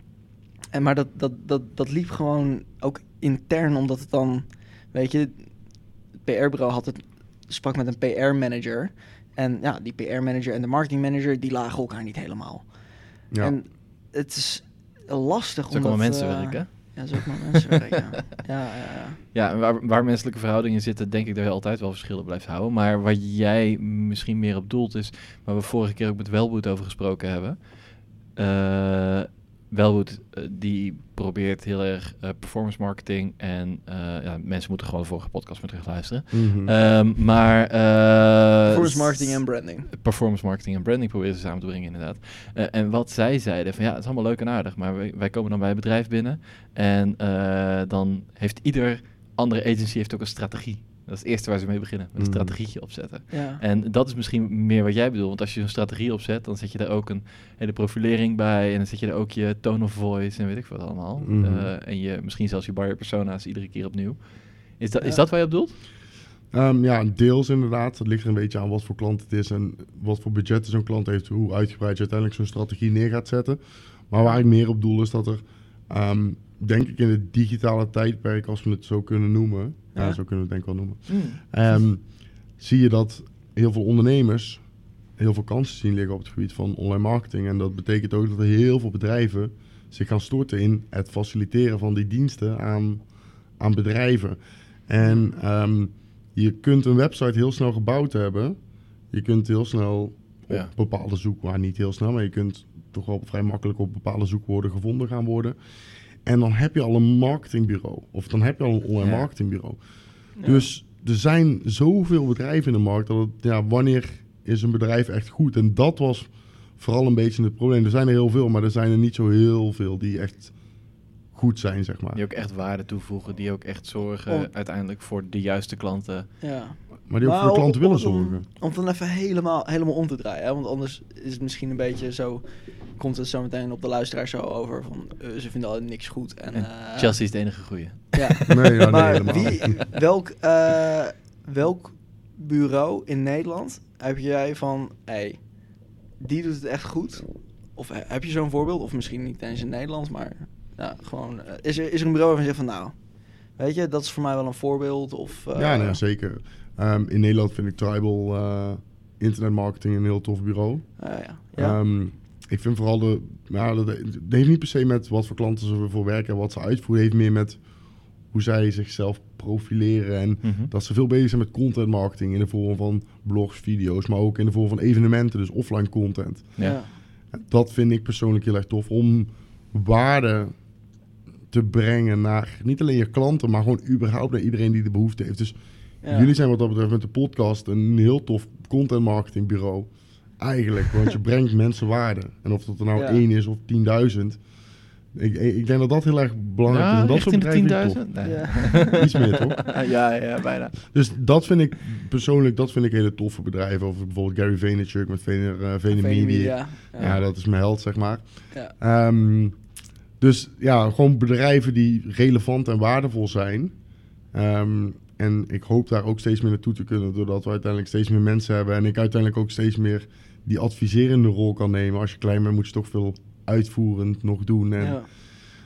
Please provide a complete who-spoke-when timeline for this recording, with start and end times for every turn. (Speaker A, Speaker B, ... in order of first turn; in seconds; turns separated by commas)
Speaker A: 0.7-19.2, Speaker B: 13.3-13.6, Speaker C: 15.7-17.5, Speaker C: 19.3-65.8, Speaker B: 36.3-36.7, Speaker A: 38.7-39.9, Speaker B: 52.2-52.6, Speaker A: 53.3-53.6, Speaker B: 61.2-61.7, Speaker A: 65.0-65.2, Speaker B: 66.5-84.6, Speaker C: 81.1-81.4, Speaker B: 85.2-93.1, Speaker B: 93.6-98.6, Speaker B: 99.1-105.6, Speaker B: 106.2-109.8, Speaker C: 109.0-109.3, Speaker B: 110.3-120.5, Speaker A: 110.4-110.7, Speaker B: 121.3-122.2, Speaker C: 122.1-126.3, Speaker A: 126.4-137.5, Speaker B: 127.1-128.5, Speaker C: 136.5-139.9, Speaker A: 138.2-145.5, Speaker B: 138.5-139.8, Speaker A: 146.2-153.0, Speaker A: 153.5-156.0, Speaker B: 155.6-167.7, Speaker A: 161.0-161.8, Speaker B: 168.2-176.7, Speaker C: 170.4-170.7, Speaker A: 176.6-177.0, Speaker B: 177.3-180.5, Speaker B: 181.5-194.4, Speaker A: 186.0-186.3, Speaker A: 193.0-193.2, Speaker B: 195.1-199.8, Speaker C: 196.7-200.8, Speaker A: 198.2-199.1, Speaker B: 200.8-209.6, Speaker A: 205.9-207.1, Speaker B: 210.2-213.8, Speaker B: 214.3-225.2, Speaker A: 224.8-225.1